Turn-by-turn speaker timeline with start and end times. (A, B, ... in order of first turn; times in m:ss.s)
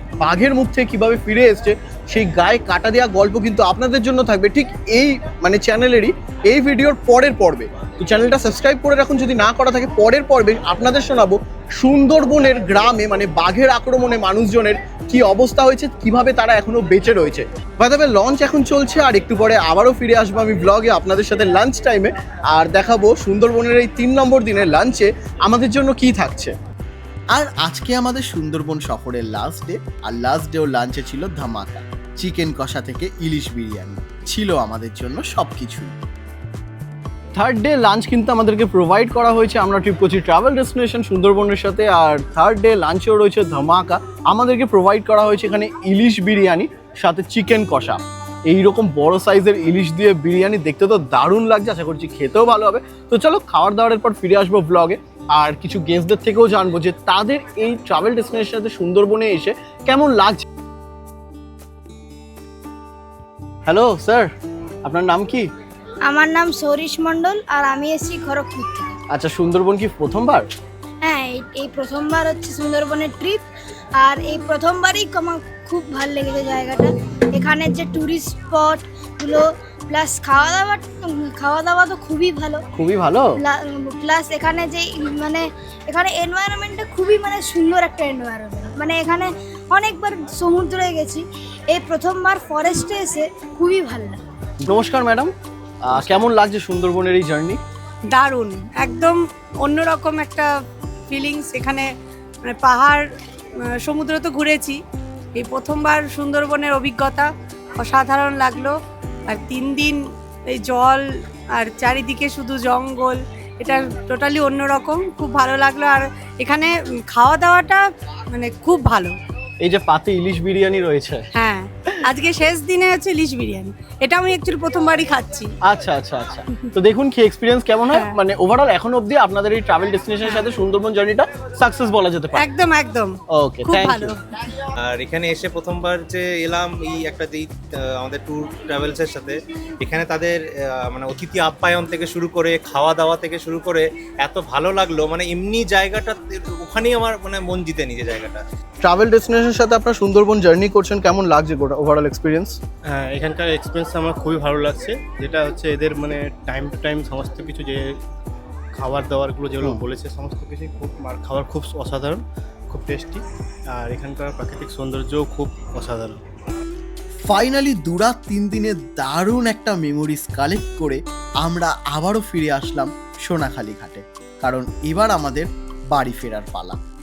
0:00.2-0:26.5 A
0:27.3-0:36.0 B
0:37.4-1:00.4 A
1:03.7-1:04.3 A
1:04.8-1:05.5 A
1:06.0-1:08.9 C
1:09.1-1:10.5 A
1:11.0-1:13.5 C
1:14.0-1:22.6 C
1:22.7-1:23.3 A
1:23.4-1:34.2 C
1:34.6-1:35.3 A
1:35.8-1:37.6 A
1:38.1-1:40.5 D
1:41.1-1:41.9 D
1:42.4-1:43.0 D
1:43.7-1:44.8 D
1:45.4-1:47.3 D
1:47.8-1:59.2 D
1:59.6-2:01.3 A
2:01.4-2:05.5 D
2:05.6-2:12.5 A
2:12.4-2:14.2 D
2:13.3-2:14.2 A
2:14.8-2:28.4 E
2:28.8-2:32.6 A
2:32.9-2:37.8 F
2:38.8-2:46.2 F
2:47.2-2:56.8 B